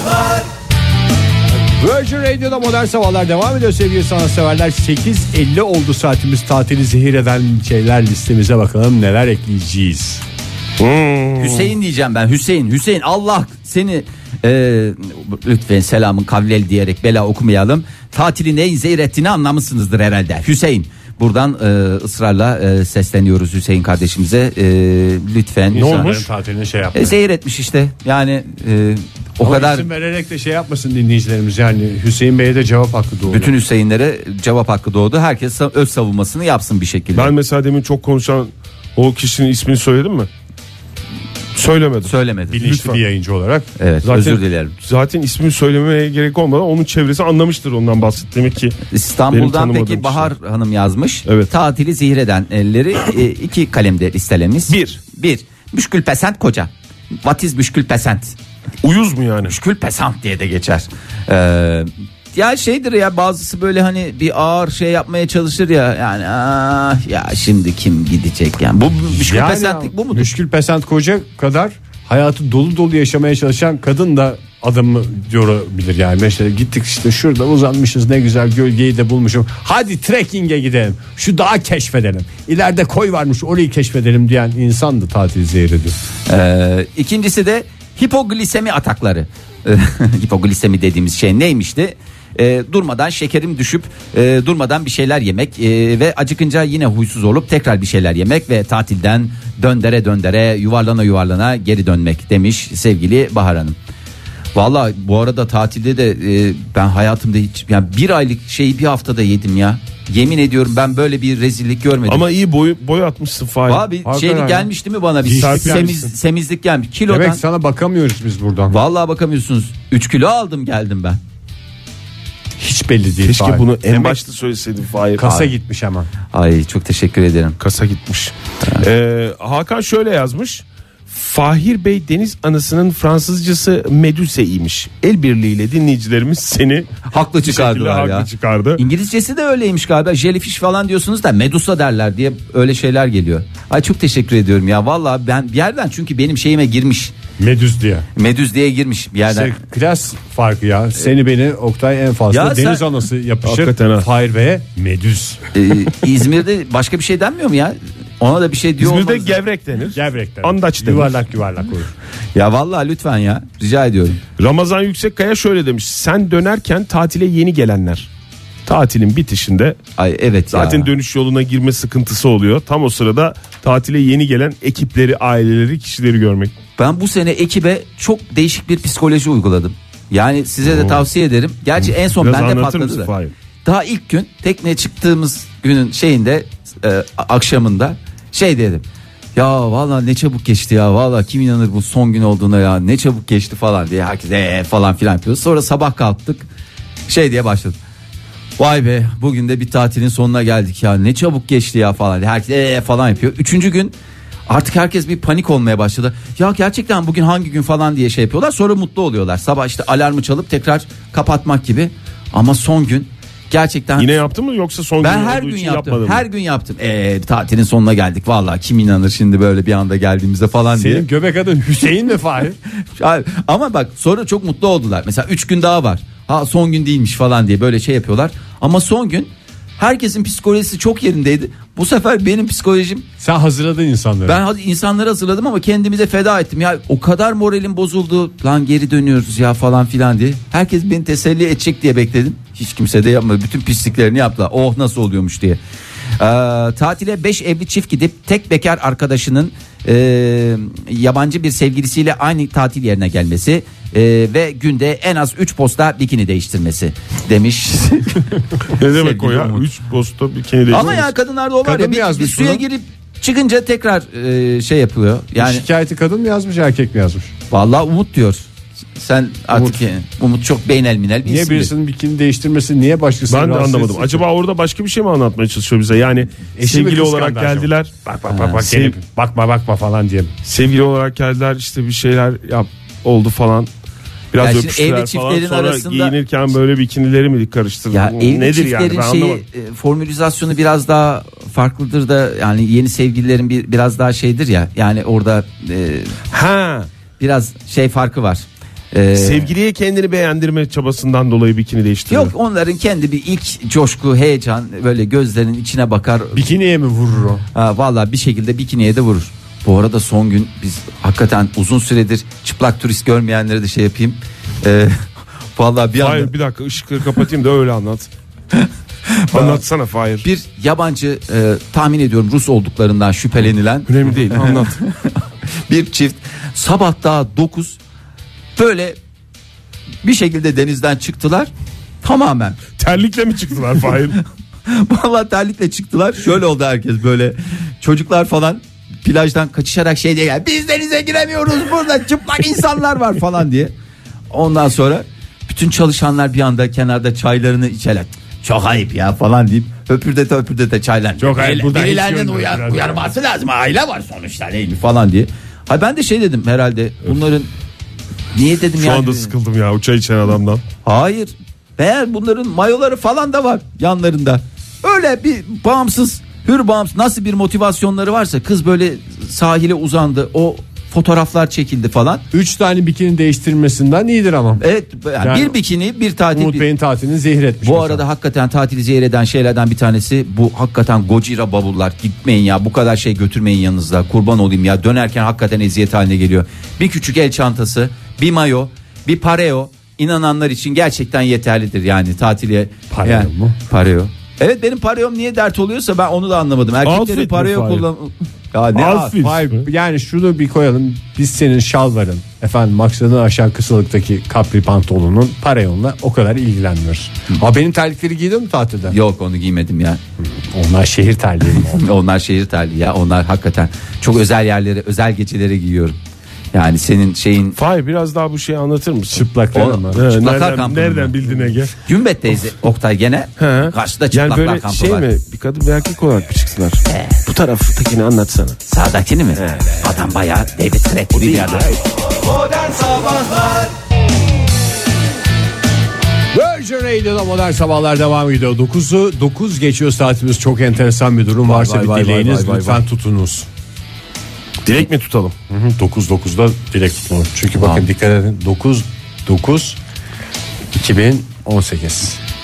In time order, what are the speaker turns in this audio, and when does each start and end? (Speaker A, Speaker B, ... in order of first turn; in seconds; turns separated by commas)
Speaker A: 1.8-10.2, Speaker B: 10.8-11.7, Speaker C: 11.4-26.2, Speaker A: 25.7-27.1, Speaker B: 25.7-26.3, Speaker C: 26.9-29.9, Speaker A: 29.4-33.5, Speaker C: 33.3-37.3, Speaker B: 37.1-40.3, Speaker B: 41.5-43.0, Speaker C: 42.0-42.6, Speaker A: 42.5-43.7, Speaker C: 43.8-44.8, Speaker B: 44.0-48.8, Speaker C: 48.9-56.7, Speaker B: 49.3-50.3, Speaker B: 51.3-51.5, Speaker B: 54.7-55.0, Speaker C: 57.2-58.4, Speaker B: 58.8-59.5, Speaker C: 59.5-70.3, Speaker A: 69.1-86.0, Speaker C: 86.3-103.8, Speaker C: 104.5-112.2, Speaker B: 112.1-113.9, Speaker C: 113.7-117.4, Speaker A: 114.0-114.7, Speaker A: 115.2-116.0, Speaker B: 115.4-116.1, Speaker A: 117.1-118.8, Speaker C: 118.7-121.2, Speaker A: 122.6-124.2, Speaker B: 123.2-125.4, Speaker A: 125.2-126.1, Speaker C: 126.3-127.6, Speaker B: 127.6-138.8, Speaker C: 137.1-147.2, Speaker A: 147.4-148.1, Speaker C: 148.2-149.5, Speaker A: 149.3-155.4, Speaker C: 152.3-152.9, Speaker B: 153.4-154.1, Speaker C: 155.5-159.4, Speaker B: 158.8-161.2, Speaker A: 159.9-161.9, Speaker C: 162.3-164.2, Speaker B: 164.4-168.1, Speaker B: 168.7-169.8, Speaker C: 170.0-170.9, Speaker B: 170.5-176.5, Speaker C: 176.8-183.1, Speaker B: 180.7-181.0, Speaker B: 181.8-183.3, Speaker C: 183.6-188.8, Speaker C: 189.4-196.5, Speaker C: 197.1-197.8, Speaker C: 198.6-203.9, Speaker C: 204.5-214.1, Speaker B: 214.0-216.2, Speaker C: 215.0-221.1, Speaker A: 220.7-222.6, Speaker C: 223.0-233.1, Speaker A: 233.2-234.4, Speaker C: 234.2-245.6, Speaker C: 246.2-259.7, Speaker B: 258.7-261.1, Speaker C: 260.7-265.6, Speaker A: 261.6-262.6, Speaker A: 265.4-267.3, Speaker C: 267.5-271.7, Speaker A: 269.5-269.8, Speaker A: 271.2-274.2, Speaker B: 273.3-279.0, Speaker A: 276.6-280.3, Speaker C: 278.3-278.6, Speaker B: 280.4-283.7, Speaker B: 284.3-289.4, Speaker C: 284.4-286.1, Speaker C: 287.9-296.2, Speaker B: 296.3-296.9, Speaker C: 297.2-299.5, Speaker B: 299.1-302.3, Speaker C: 302.1-306.5, Speaker A: 306.3-307.4, Speaker C: 307.5-315.0, Speaker C: 315.6-316.3, Speaker B: 316.0-318.1, Speaker C: 318.5-319.6, Speaker B: 319.3-320.2, Speaker C: 320.2-327.8, Speaker B: 323.9-324.8, Speaker C: 328.6-329.0, Speaker C: 330.0-331.5, Speaker C: 332.0-332.6, Speaker B: 332.8-334.2, Speaker C: 334.7-343.7, Speaker C: 344.3-357.5, Speaker A: 351.2-353.1, Speaker C: 358.3-359.3, Speaker B: 358.8-360.6, Speaker C: 360.9-372.2, Speaker A: 372.3-374.6, Speaker C: 374.6-376.7, Speaker A: 375.2-375.6, Speaker A: 376.3-378.0, Speaker C: 377.6-399.1, Speaker A: 392.9-393.6, Speaker B: 396.9-397.9, Speaker B: 398.7-399.7, Speaker A: 399.1-409.0, Speaker C: 408.9-410.0, Speaker A: 410.2-411.9, Speaker C: 411.6-416.0, Speaker C: 416.5-417.6, Speaker B: 417.6-419.3, Speaker A: 419.1-420.0, Speaker C: 419.5-421.1, Speaker B: 419.9-421.7, Speaker C: 421.8-425.1, Speaker B: 423.4-428.6, Speaker C: 428.7-431.8, Speaker B: 429.4-429.8, Speaker B: 431.1-431.8, Speaker A: 436.3-443.5, Speaker B: 441.5-442.8, Speaker B: 444.6-445.4, Speaker A: 445.5-449.8, Speaker C: 447.6-447.9, Speaker A: 450.7-452.2